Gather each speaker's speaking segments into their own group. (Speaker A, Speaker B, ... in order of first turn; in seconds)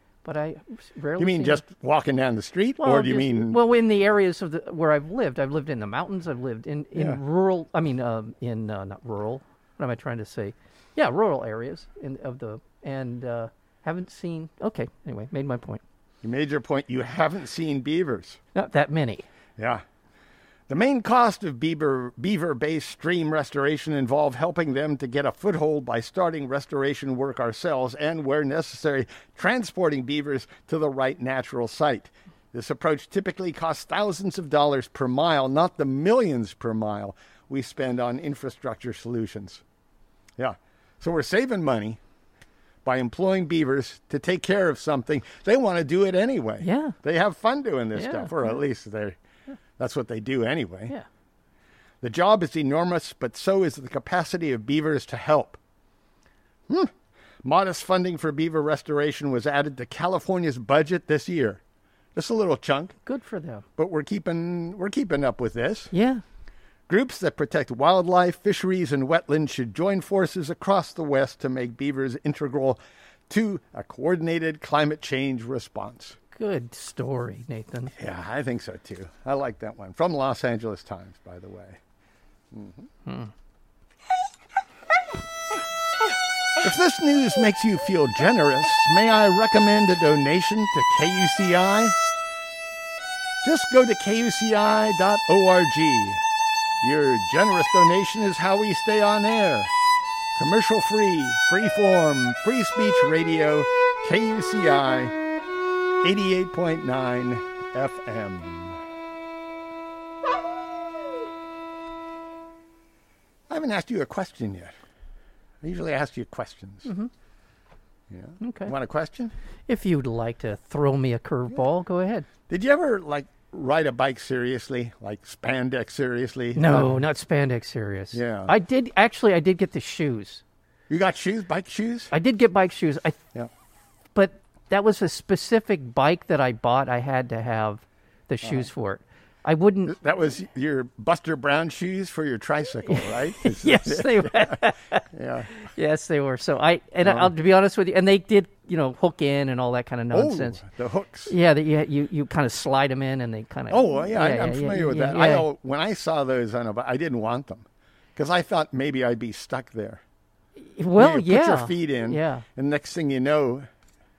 Speaker A: 0.2-1.6, 2.8-15.8, 18.5-19.3, 46.6-46.9, 48.0-48.5, 63.1-63.6, 65.9-66.2, 76.4-77.9, 116.8-117.1, 118.4-118.7, 119.7-122.3, 126.6-130.4, 132.1-133.2, 134.2-139.9, 142.9-150.6, 151.3-155.5, 160.6-162.4
Speaker B: 1.2-3.6, 16.2-18.4, 19.6-19.8, 20.7-39.6, 40.4-42.0, 42.9-49.2, 49.8-51.0, 52.0-55.6, 57.4-61.6, 62.1-63.0, 63.8-65.9, 66.9-76.2, 78.0-81.8, 82.5-82.9, 86.6-92.0, 93.4-96.2, 96.8-99.7, 100.4-105.2, 106.0-108.8, 113.5-114.7, 115.6-116.9, 118.1-119.3, 122.5-127.0, 128.1-128.5, 130.9-132.1, 139.9-145.5, 147.0-147.3, 150.1-151.3, 153.7-160.0, 161.0-163.7